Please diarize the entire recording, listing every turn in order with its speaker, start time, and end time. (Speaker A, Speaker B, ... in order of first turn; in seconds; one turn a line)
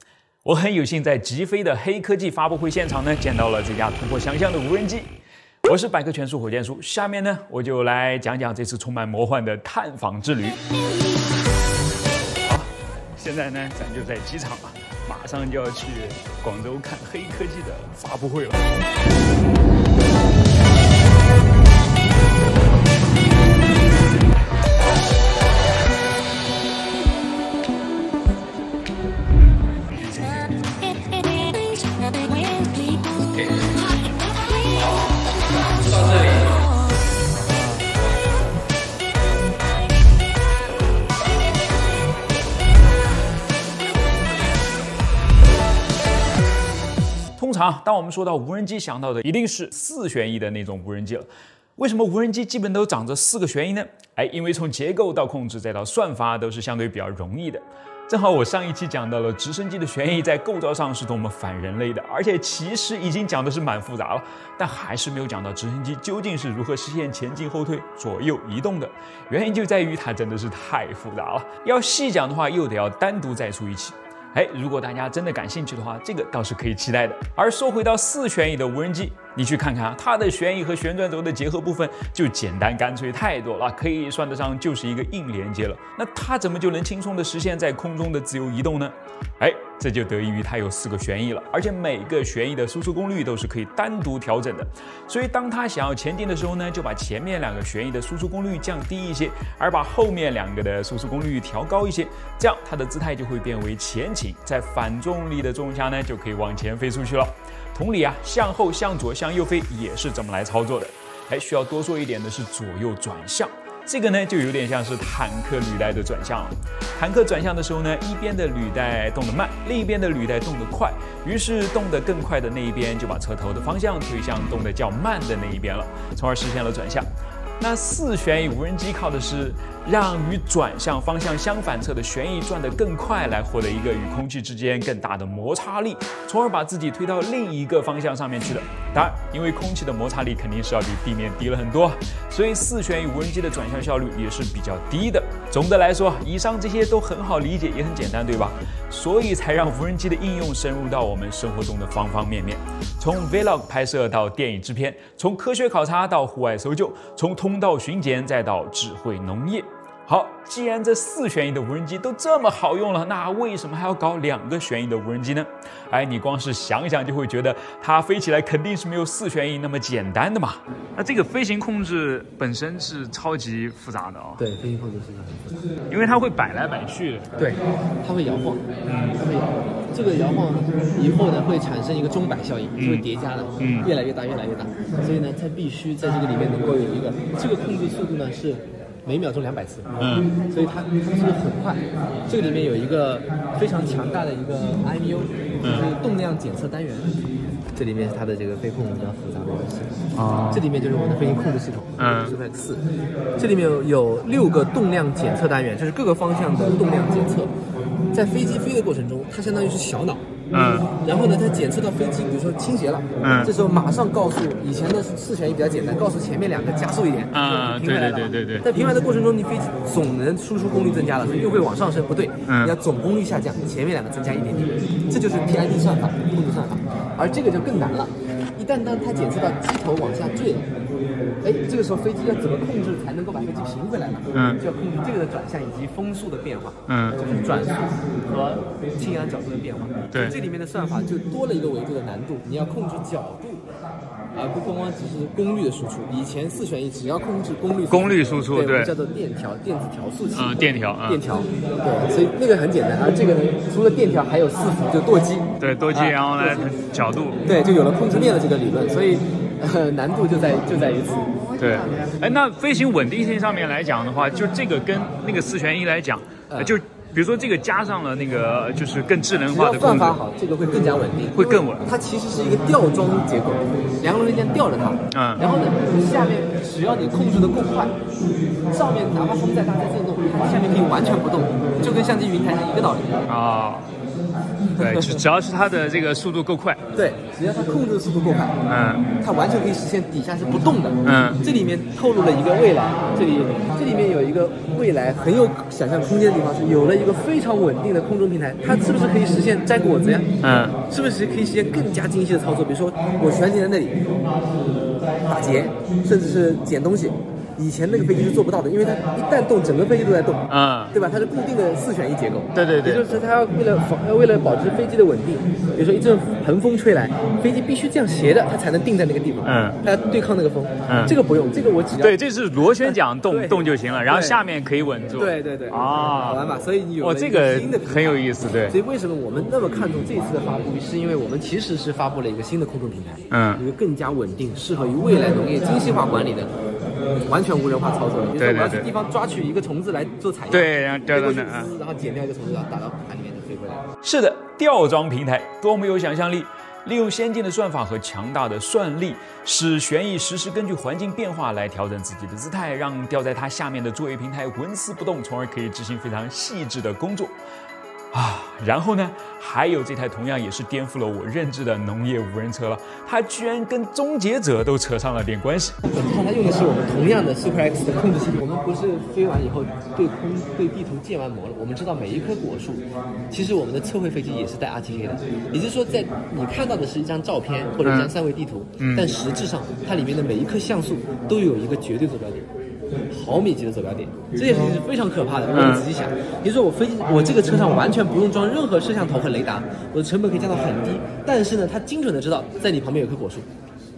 Speaker A: 0.4-5.1
Speaker A: 5.6-10.6
Speaker A: 12.4-18.7
Speaker A: 30.2-30.5
Speaker B: 35.7-36.4
Speaker A: 47.4-127.1
Speaker A: 127.6-174.4
Speaker B: 174.4-175.6
Speaker A: 175.9-177.3
Speaker B: 177.4-197.2
Speaker A: 178.8-179.2
Speaker A: 182.7-183.0
Speaker A: 183.6-183.9
Speaker A: 190.0-190.3
Speaker B: 197.8-199.9
Speaker A: 200.1-200.6
Speaker B: 200.5-202.8
Speaker A: 202.0-202.3
Speaker B: 203.4-207.5
Speaker B: 208.1-210.2
Speaker A: 210.5-210.9
Speaker B: 210.9-230.7
Speaker A: 213.2-213.5
Speaker A: 217.3-218.7
Speaker A: 222.5-222.7
Speaker B: 231.4-243.6
Speaker A: 234.3-234.6
Speaker A: 236.9-237.2
Speaker A: 240.1-240.3
Speaker B: 244.3-256.7
Speaker A: 247.9-248.9
Speaker A: 250.3-251.2
Speaker A: 255.6-257.4
Speaker B: 257.4-261.4
Speaker A: 261.6-270.2
Speaker B: 266.5-266.8
Speaker B: 269.5-277.9
Speaker A: 271.3-271.9
Speaker A: 275.1-275.4
Speaker B: 278.7-283.2
Speaker A: 283.3-283.9
Speaker B: 284.7-285.2
Speaker A: 284.7-286.8
Speaker B: 286.9-300.3
Speaker A: 288.7-289.1
Speaker A: 291.0-291.4
Speaker A: 300.4-300.8
Speaker B: 300.8-304.1
Speaker B: 305.3-322.1
Speaker A: 310.5-310.9
Speaker A: 312.5-313.2
Speaker A: 319.4-319.8
Speaker A: 320.9-321.1
Speaker A: 322.0-326.4
Speaker B: 322.8-324.4
Speaker B: 325.1-336.5
Speaker A: 327.0-328.8
Speaker A: 333.3-333.6
Speaker B: 337.2-343.8
Speaker A: 338.4-338.9
Speaker A: 340.5-341.7
Speaker A: 344.0-357.4
Speaker A: 358.1-365.8
Speaker B: 365.9-382.4
Speaker A: 377.8-378.1
Speaker A: 378.8-379.1
Speaker B: 383.1-393.4
Speaker A: 385.5-385.8